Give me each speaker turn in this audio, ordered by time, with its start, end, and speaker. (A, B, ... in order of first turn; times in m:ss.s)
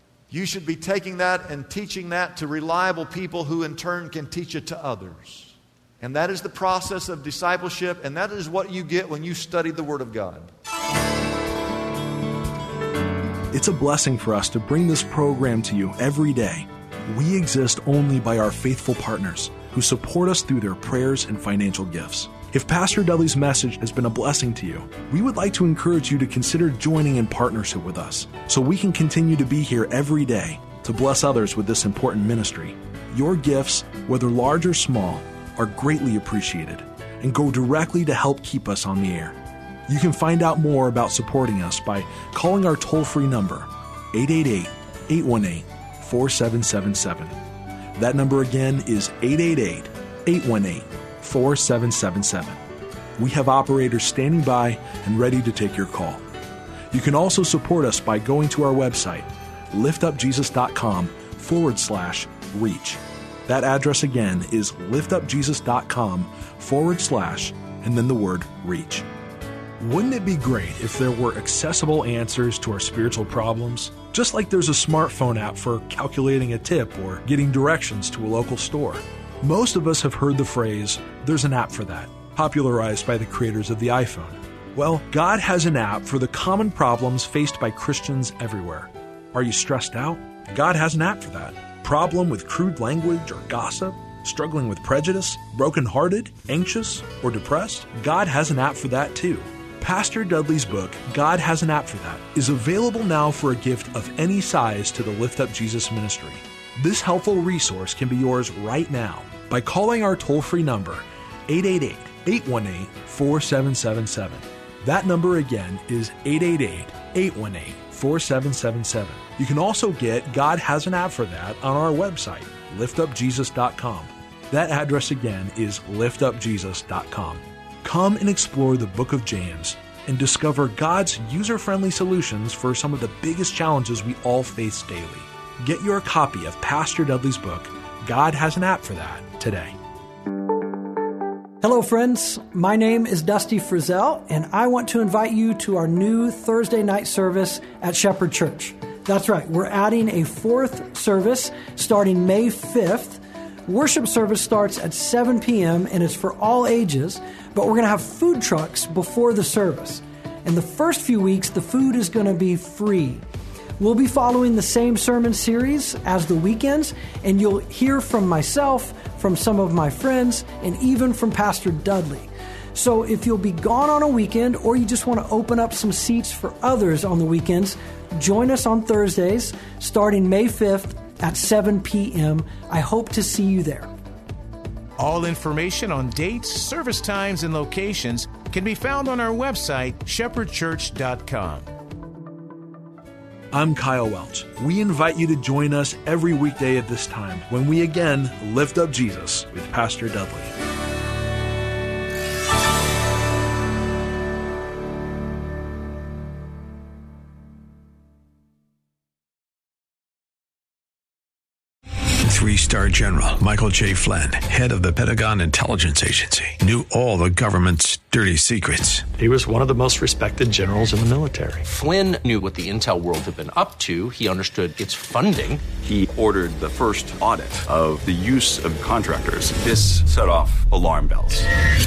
0:00.3-0:10.5 A
0:13.5-0:39.4 B
0:39.9-0:47.4 B
0:48.0-0:52.6 B
0:53.2-0:56.2 B
0:56.9-1:09.1 B
1:09.8-2:19.8 B
2:21.6-2:43.2 C
2:43.8-3:03.9 C
3:05.0-3:11.7 D
3:13.5-3:20.5 B
3:32.2-3:39.2 E
3:39.3-3:41.6 F
3:41.6-3:45.7 G
3:45.8-3:51.5 H